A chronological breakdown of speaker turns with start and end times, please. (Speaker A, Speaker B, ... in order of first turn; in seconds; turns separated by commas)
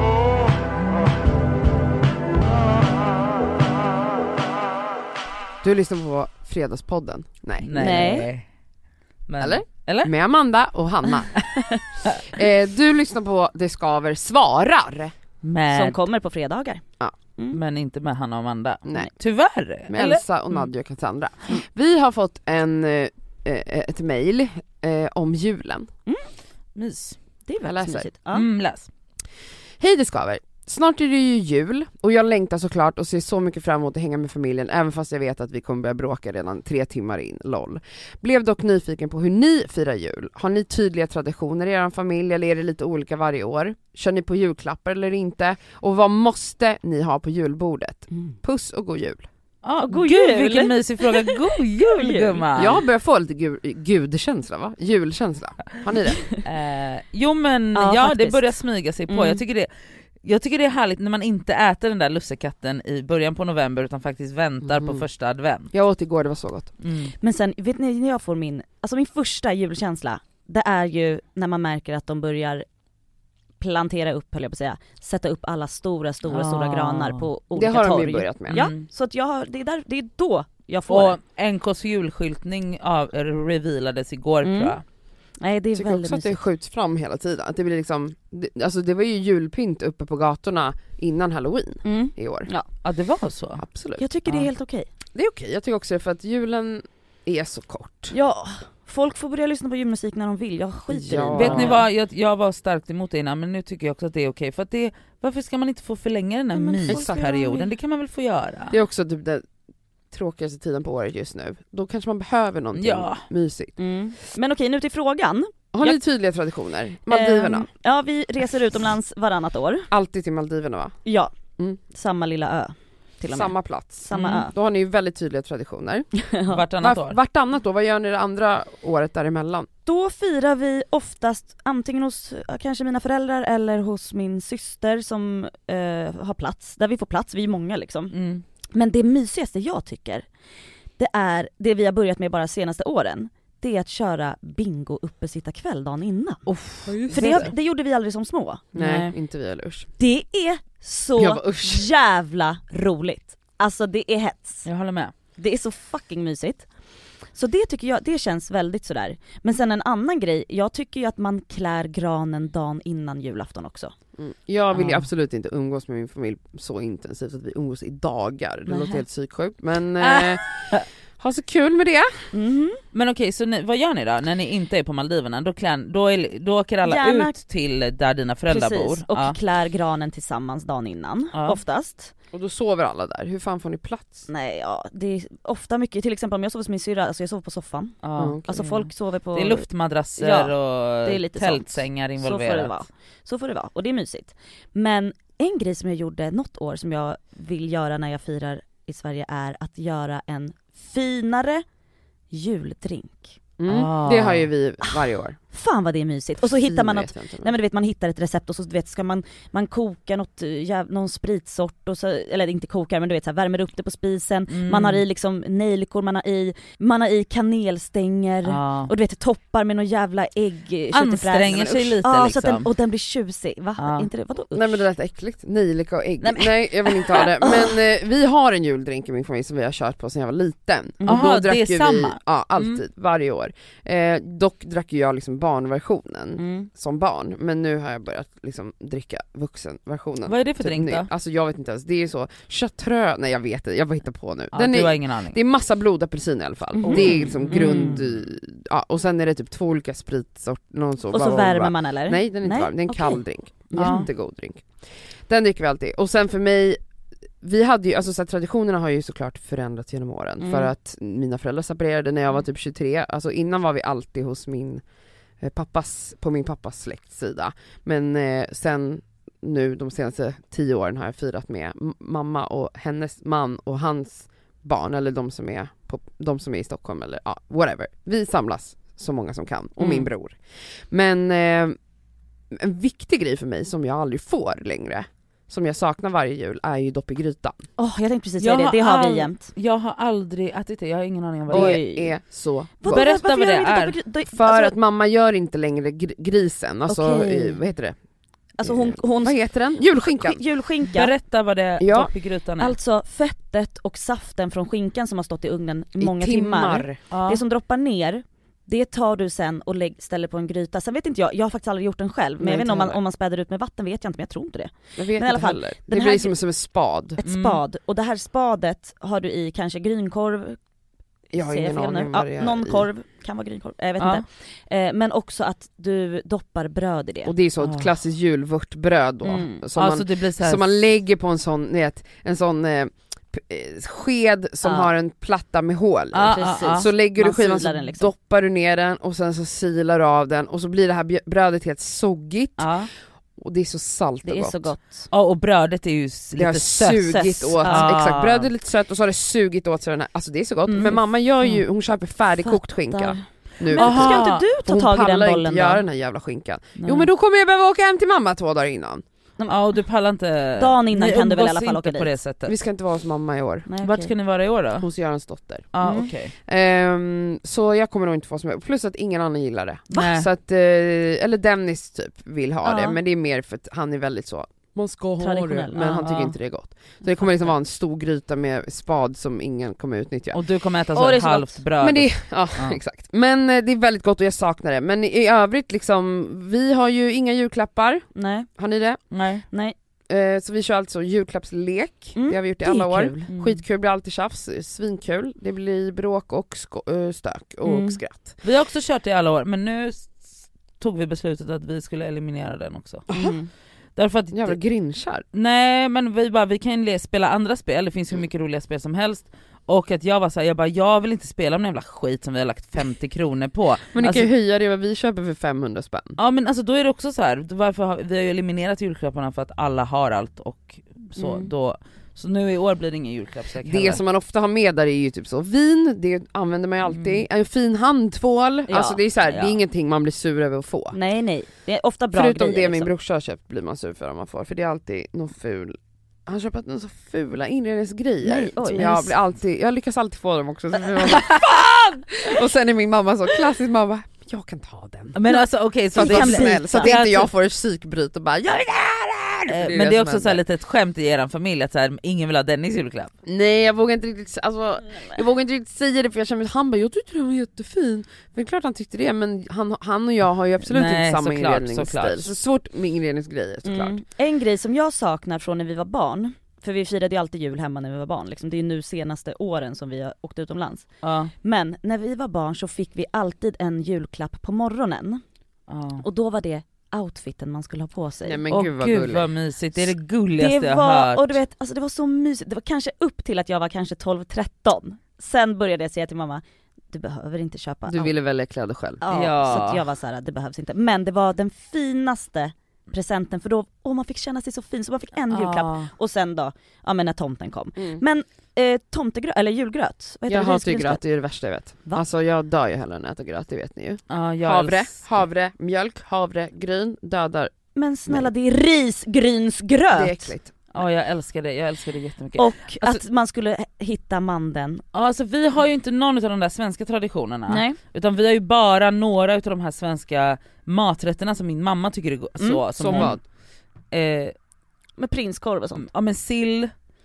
Speaker A: 5.6-8.2, Speaker B: 7.6-8.4, Speaker C: 7.7-8.3, Speaker B: 9.3-10.1, Speaker A: 9.4-11.5, Speaker A: 12.1-15.1, Speaker B: 15.4-16.0, Speaker C: 15.7-16.8, Speaker B: 17.5-20.7, Speaker A: 18.9-19.1, Speaker A: 19.9-25.9, Speaker B: 26.8-27.2, Speaker C: 27.4-28.5, Speaker A: 27.6-28.1, Speaker B: 28.3-28.9, Speaker A: 29.8-49.3, Speaker B: 49.6-52.8, Speaker C: 49.8-52.5, Speaker A: 52.6-56.2, Speaker B: 56.4-65.7, Speaker C: 57.8-58.5, Speaker C: 59.1-59.4, Speaker A: 64.6-65.0, Speaker A: 65.7-66.7, Speaker B: 66.8-67.1, Speaker C: 67.2-72.7, Speaker C: 73.6-81.2, Speaker B: 76.3-77.2, Speaker A: 77.5-78.6, Speaker B: 78.5-78.8, Speaker B: 80.9-84.8, Speaker C: 84.4-84.8, Speaker C: 85.4-86.4, Speaker A: 85.8-92.5, Speaker C: 91.8-92.7, Speaker B: 92.8-93.6, Speaker A: 93.5-94.0, Speaker C: 94.0-94.9, Speaker A: 95.2-98.2, Speaker C: 98.1-101.8, Speaker A: 100.9-101.8, Speaker B: 101.3-108.8, Speaker C: 106.5-107.8, Speaker A: 106.9-107.2, Speaker A: 108.7-109.4, Speaker A: 110.1-113.8, Speaker B: 112.8-113.2, Speaker C: 113.8-116.0, Speaker A: 115.7-117.7, Speaker C: 117.1-119.9, Speaker A: 119.9-120.9, Speaker C: 121.0-121.3, Speaker C: 121.9-124.5, Speaker A: 123.3-126.1, Speaker B: 124.1-124.5, Speaker C: 126.1-126.6, Speaker B: 126.5-127.2, Speaker A: 126.8-129.7, Speaker C: 129.8-138.1, Speaker B: 138.1-138.4, Speaker C: 138.7-140.3, Speaker C: 141.0-146.4, Speaker B: 146.5-147.5, Speaker A: 146.9-147.5, Speaker C: 147.1-148.7, Speaker A: 148.7-149.9, Speaker B: 148.8-149.1, Speaker C: 150.0-154.7, Speaker A: 151.2-151.9, Speaker B: 154.7-155.1, Speaker C: 155.4-156.7, Speaker C: 157.3-163.9, Speaker A: 164.2-172.3, Speaker B: 164.7-165.1, Speaker C: 168.7-169.0, Speaker B: 170.0-170.8, Speaker C: 172.3-172.8, Speaker B: 172.9-179.4, Speaker C: 176.8-177.4, Speaker C: 178.5-182.1, Speaker B: 181.3-181.6, Speaker A: 182.3-184.3, Speaker C: 184.3-201.6, Speaker B: 188.0-192.8, Speaker A: 188.2-188.5, Speaker C: 202.3-203.4, Speaker A: 203.6-205.4, Speaker B: 203.7-204.5, Speaker C: 204.8-224.9, Speaker A: 206.4-207.6, Speaker B: 214.5-215.0, Speaker B: 218.4-218.9, Speaker B: 220.9-222.7, Speaker B: 223.8-224.1, Speaker A: 224.5-254.7, Speaker C: 226.2-227.8, Speaker B: 231.1-232.8, Speaker C: 236.4-236.7, Speaker B: 240.3-241.1, Speaker B: 244.5-245.4, Speaker C: 246.8-248.0, Speaker B: 246.8-248.1, Speaker C: 251.1-254.1, Speaker B: 253.8-254.1, Speaker A: 255.3-256.8, Speaker A: 257.4-264.8, Speaker C: 260.4-260.7, Speaker A: 265.4-280.4, Speaker B: 279.8-280.1, Speaker A: 280.9-281.8, Speaker A: 282.5-287.6, Speaker C: 287.8-289.5, Speaker B: 288.4-291.8, Speaker C: 291.5-292.2, Speaker A: 291.5-293.1, Speaker C: 292.8-294.8, Speaker B: 292.9-294.0, Speaker A: 294.3-297.9, Speaker C: 296.9-297.6, Speaker C: 298.6-299.4, Speaker A: 298.6-300.4, Speaker C: 300.1-301.1, Speaker B: 300.9-302.8, Speaker A: 301.8-302.1, Speaker C: 302.6-316.4, Speaker A: 306.0-307.0, Speaker B: 307.1-307.4, Speaker A: 312.4-313.0, Speaker A: 315.0-317.2, Speaker C: 317.2-320.6, Speaker B: 317.2-317.6, Speaker C: 321.3-327.3, Speaker A: 321.3-322.9, Speaker A: 327.2-342.7, Speaker B: 327.6-327.9, Speaker C: 329.2-329.6, Speaker B: 329.8-330.8, Speaker C: 334.6-334.9, Speaker B: 336.1-336.9, Speaker C: 336.2-338.1, Speaker B: 342.6-342.9, Speaker A: 343.4-344.7, Speaker C: 344.2-345.1, Speaker B: 345.1-348.5, Speaker A: 346.4-359.0, Speaker C: 347.1-347.9, Speaker C: 350.7-351.5, Speaker C: 352.4-355.8, Speaker B: 353.8-354.5, Speaker B: 356.8-357.1, Speaker C: 359.4-359.7, Speaker B: 359.5-362.6, Speaker C: 360.6-362.2, Speaker A: 362.5-363.7, Speaker C: 363.7-364.1, Speaker B: 363.8-364.9, Speaker A: 364.8-365.8, Speaker B: 365.7-366.3, Speaker C: 365.8-366.1, Speaker A: 366.5-380.4, Speaker B: 369.9-370.3, Speaker C: 372.6-373.0, Speaker C: 375.2-376.1, Speaker B: 376.0-376.3, Speaker C: 377.1-377.3, Speaker B: 380.3-382.8, Speaker C: 380.9-381.6, Speaker A: 381.8-388.1, Speaker C: 388.1-388.5, Speaker A: 388.6-389.0, Speaker B: 389.1-389.4, Speaker A: 390.1-398.4, Speaker C: 392.1-393.2, Speaker B: 393.3-393.6, Speaker C: 397.6-398.0, Speaker B: 398.4-403.1, Speaker A: 403.1-403.4, Speaker C: 403.1-403.5, Speaker B: 404.0-404.6, Speaker A: 404.3-405.2, Speaker B: 405.3-414.3, Speaker A: 413.9-416.2, Speaker B: 416.2-424.0, Speaker C: 421.2-421.5, Speaker A: 423.6-431.0, Speaker B: 426.9-427.2, Speaker C: 428.7-429.0, Speaker B: 429.3-429.6, Speaker C: 430.9-432.9, Speaker A: 432.1-445.2, Speaker C: 438.2-439.1, Speaker B: 445.1-447.3, Speaker A: 445.9-450.4, Speaker C: 445.9-446.9, Speaker B: 449.5-453.1, Speaker A: 453.2-464.0, Speaker B: 460.7-462.3, Speaker C: 463.6-470.9, Speaker B: 471.0-471.3, Speaker C: 471.4-475.2, Speaker B: 475.7-476.0, Speaker C: 476.0-478.4, Speaker A: 478.2-479.3, Speaker B: 478.5-481.4, Speaker C: 480.4-488.1, Speaker A: 487.9-489.1, Speaker C: 489.0-501.0, Speaker B: 489.1-489.8, Speaker B: 495.3-495.9, Speaker A: 497.8-498.0, Speaker A: 500.3-507.5, Speaker B: 504.1-505.1, Speaker C: 507.8-510.4, Speaker A: 509.9-510.5, Speaker B: 510.7-512.5, Speaker C: 512.4-514.8, Speaker B: 514.9-523.2, Speaker C: 517.5-517.8, Speaker C: 522.4-523.1, Speaker A: 522.8-523.2, Speaker B: 523.9-524.3, Speaker C: 525.0-525.9, Speaker B: 525.8-526.7